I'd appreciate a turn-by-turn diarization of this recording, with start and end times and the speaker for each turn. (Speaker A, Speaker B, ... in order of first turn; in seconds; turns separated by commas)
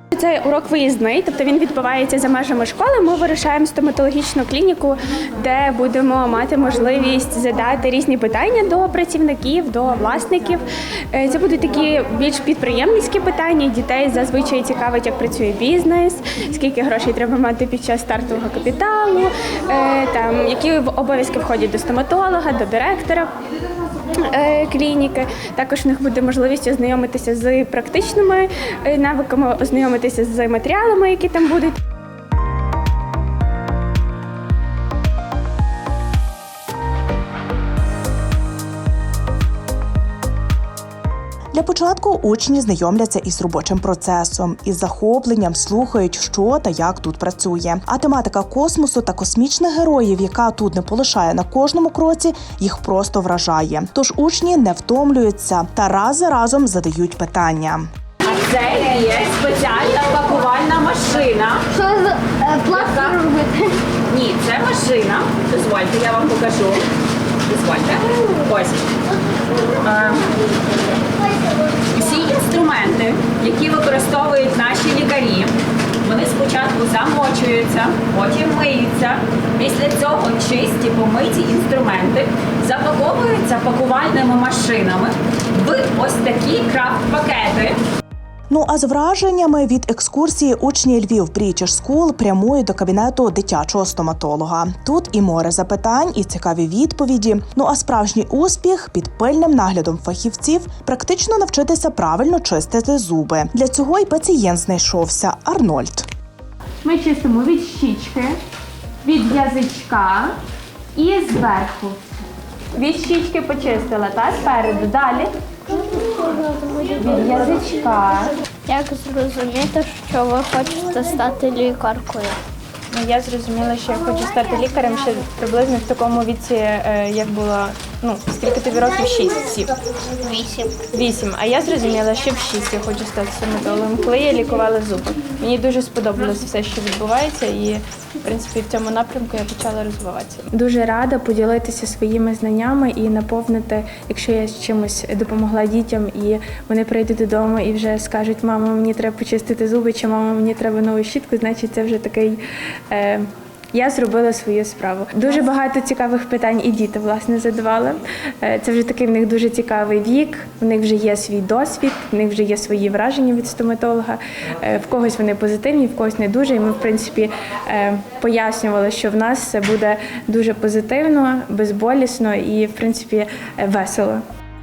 Speaker A: 0.1-23.3, Speaker A: 24.1-31.8, Speaker B: 41.5-57.9, Speaker C: 58.2-61.7, Speaker C: 62.5-63.3, Speaker C: 64.1-66.8, Speaker C: 67.5-68.8, Speaker C: 69.8-70.3, Speaker C: 71.9-75.5, Speaker C: 76.0-87.8, Speaker B: 88.5-106.1, Speaker A: 106.8-108.4, Speaker A: 109.0-110.3, Speaker A: 111.0-112.0, Speaker A: 112.8-115.3, Speaker A: 117.0-118.3, Speaker D: 118.7-122.3, Speaker A: 122.9-129.7, Speaker A: 130.8-174.2